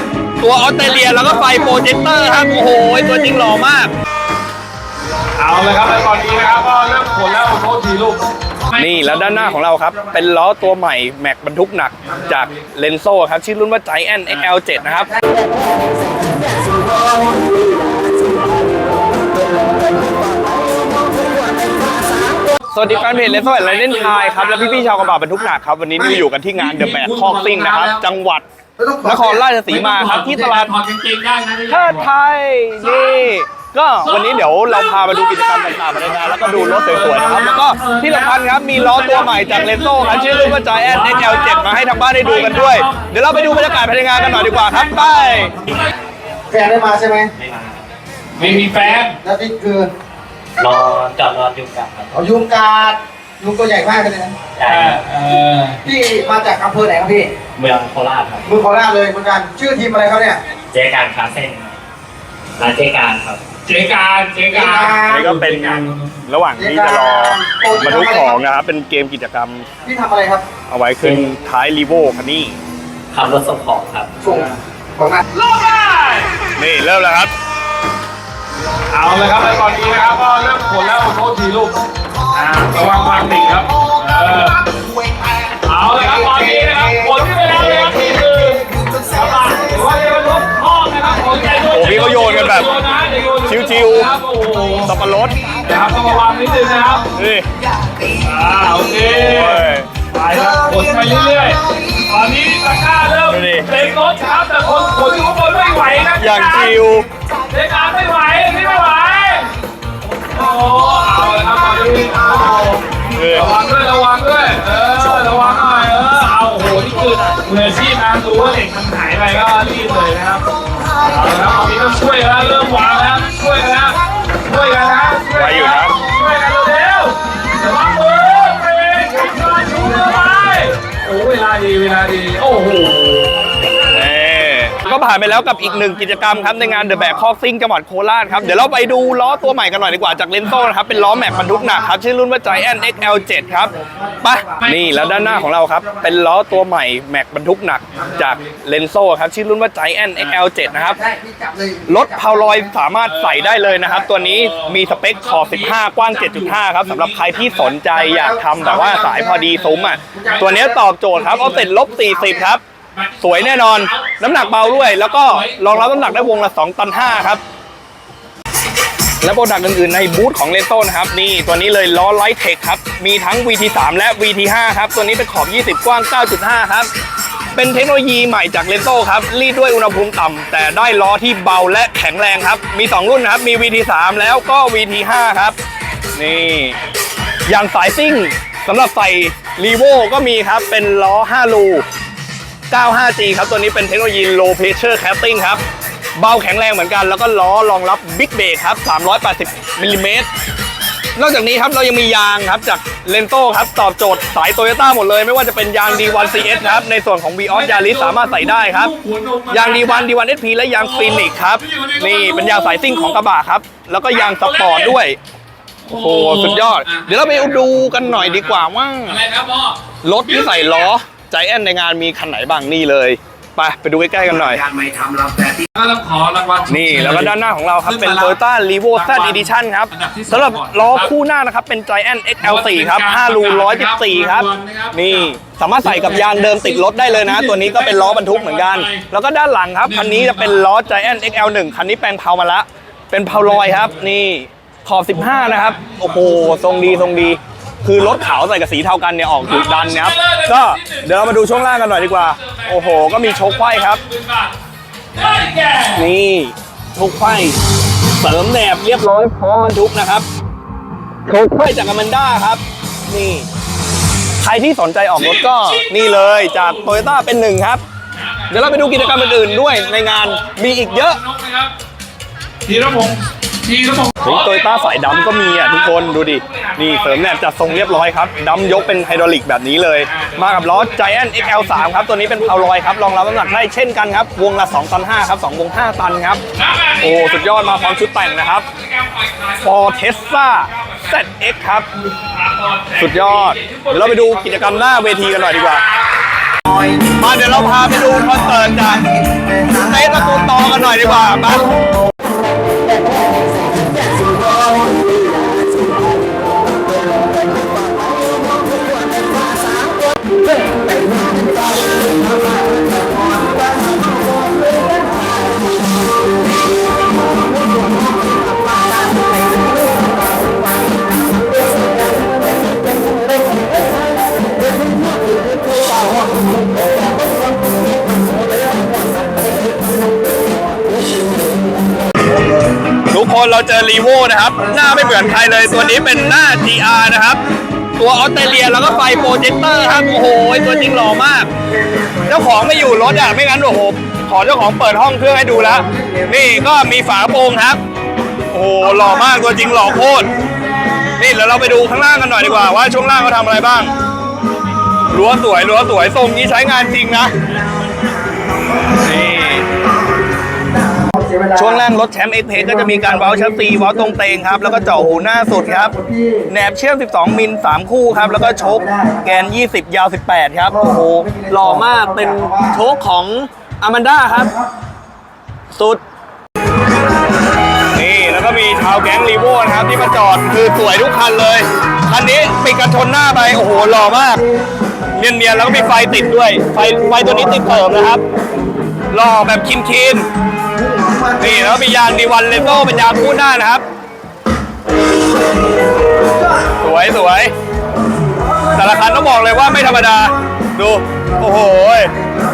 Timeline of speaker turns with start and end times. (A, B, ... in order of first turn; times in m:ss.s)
0:00.4-0:03.9 A
0:05.4-0:09.6 B
0:08.7-0:15.1 A
0:12.0-0:12.6 B
0:22.7-0:28.4 A
0:22.9-0:25.2 B
0:26.6-0:28.0 B
0:28.8-0:29.5 C
0:29.0-0:30.7 A
0:29.7-0:32.1 B
0:31.7-0:45.5 A
0:32.8-0:33.3 B
0:34.0-0:45.9 B
0:45.7-0:45.9 D
0:46.5-0:47.3 C
0:47.4-0:47.8 D
0:48.3-0:49.2 B
0:48.5-0:49.9 C
0:50.6-0:52.1 D
0:52.1-0:54.4 C
0:54.6-0:55.0 D
0:54.7-0:55.8 B
0:55.8-0:57.3 C
0:57.5-0:58.4 D
0:58.4-1:00.4 C
1:00.7-1:01.8 D
1:02.6-1:03.4 D
1:03.6-1:06.2 B
1:04.5-1:05.3 C
1:05.0-1:09.7 A
1:06.6-1:08.4 C
1:09.8-1:10.4 C
1:10.7-1:12.6 A
1:13.1-1:14.1 D
1:14.2-1:15.2 C
1:14.2-1:14.6 B
1:15.3-1:16.4 B
1:16.6-1:17.3 A
1:18.9-1:24.6 B
1:25.6-1:34.9 B
1:31.6-1:32.7 A
1:33.4-1:34.1 A
1:34.8-1:35.6 A
1:35.5-1:37.1 B
1:37.1-1:37.5 A
1:38.1-1:46.8 B
1:39.1-1:39.9 A
1:43.3-1:43.7 A
1:46.2-1:47.1 A
1:47.5-1:49.6 B
1:50.1-2:13.3 B
1:53.1-1:53.6 A
2:05.3-2:06.0 A
2:13.9-2:31.0 A
2:15.2-2:16.3 B
2:22.9-2:24.6 C
2:23.8-2:25.5 B
2:27.9-2:28.6 B
2:30.7-2:32.7 C
2:31.9-2:42.6 A
2:33.0-2:37.8 B
2:38.0-2:39.4 C
2:38.6-2:42.2 B
2:40.1-2:40.8 C
2:42.9-2:46.2 B
2:43.2-2:47.4 A
2:49.2-2:56.9 A
2:57.5-3:05.6 A
3:06.2-3:06.8 A
3:07.5-3:11.8 A
3:12.7-3:15.6 A
3:16.2-3:20.3 A
3:21.2-3:28.9 A
3:25.8-3:26.9 B
3:27.5-3:30.1 B
3:29.5-3:35.2 A
3:30.7-3:33.2 B
3:34.1-3:35.0 B
3:35.8-3:40.9 B
3:35.9-3:39.2 A
3:40.0-3:44.6 A
3:44.6-3:48.4 B
3:46.7-4:14.0 A
3:48.9-3:51.1 B
3:52.4-3:59.0 B
3:59.8-4:00.7 B
4:03.3-4:04.1 B
4:05.1-4:07.3 B
4:09.4-4:14.6 B
4:15.1-4:16.1 B
4:15.9-4:17.6 A
4:18.2-4:20.2 A
4:21.2-4:23.5 A
4:24.4-4:27.8 A
4:25.1-4:27.1 B
4:28.1-4:31.7 B
4:28.5-4:31.2 A
4:32.6-4:38.7 B
4:34.2-4:46.4 A
4:40.0-4:43.6 B
4:46.5-4:56.1 B
4:47.0-4:48.7 A
4:49.6-4:51.9 A
4:53.0-4:55.8 A
4:57.0-4:59.1 A
4:59.7-5:01.7 A
5:33.1-5:37.4 A
5:38.0-5:41.5 A
5:42.2-5:47.8 A
5:45.9-5:46.2 C
5:48.5-5:50.3 A
5:51.2-5:53.9 A
5:55.1-5:57.3 A
5:59.0-5:59.7 A
6:01.2-6:01.8 C
6:01.5-6:05.9 A
6:02.7-6:06.5 C
6:06.5-6:14.6 A
6:08.2-6:09.4 C
6:10.7-6:12.8 C
6:15.7-6:16.0 A
6:17.9-6:24.4 A
6:25.1-6:28.2 A
6:29.1-6:30.3 A
6:31.4-6:33.8 A
6:36.8-6:37.5 A
6:38.7-6:42.1 A